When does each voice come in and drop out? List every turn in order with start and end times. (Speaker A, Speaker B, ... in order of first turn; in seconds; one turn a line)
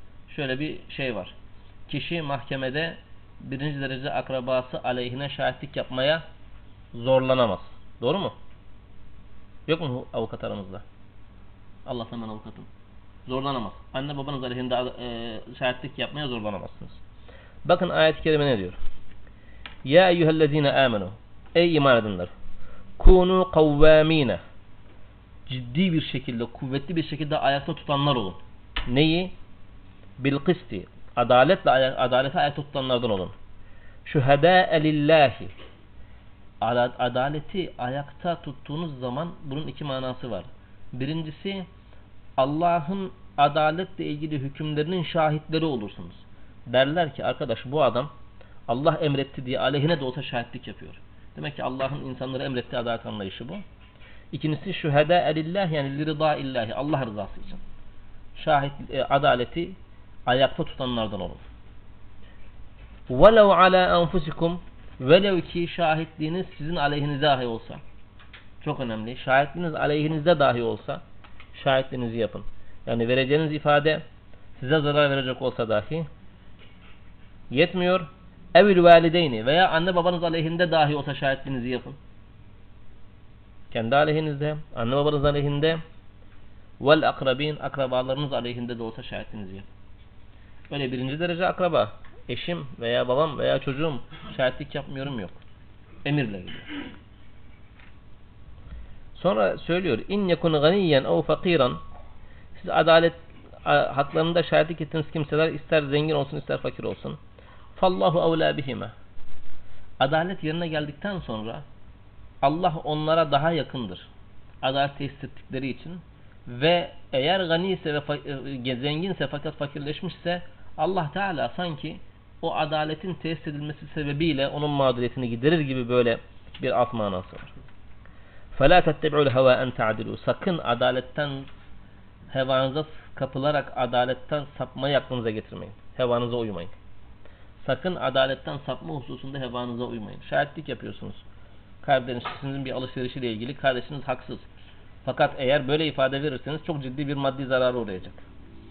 Speaker A: 0.3-1.3
Speaker A: 1.9-6.2
Speaker A: 6.9-8.3
Speaker A: 9.7-10.8
Speaker A: 11.8-12.7
Speaker A: 13.3-17.0
Speaker A: 17.6-18.8
Speaker A: 19.8-22.3
Speaker A: 23.0-24.4
Speaker A: 25.5-29.3
Speaker A: 30.2-33.3
Speaker A: 34.0-35.5
Speaker A: 36.6-41.7
Speaker A: 42.4-48.1
Speaker A: 48.7-53.6
Speaker A: 54.3-57.6
Speaker A: 58.4-61.4
Speaker A: 63.1-67.8
Speaker A: 68.6-71.0
Speaker A: 71.5-74.0
Speaker A: 74.6-76.1
Speaker A: 77.5-82.0
Speaker A: 83.7-85.8
Speaker A: 86.8-89.7
Speaker A: 90.7-95.4
Speaker A: 96.0-96.8
Speaker A: 99.1-101.8
Speaker A: 102.5-107.2
Speaker A: 107.8-108.9
Speaker A: 110.0-111.6
Speaker A: 112.4-114.1
Speaker A: 114.6-127.5
Speaker A: 128.5-131.5
Speaker A: 132.3-136.7
Speaker A: 137.6-141.2
Speaker A: 141.8-144.5
Speaker A: 145.0-148.2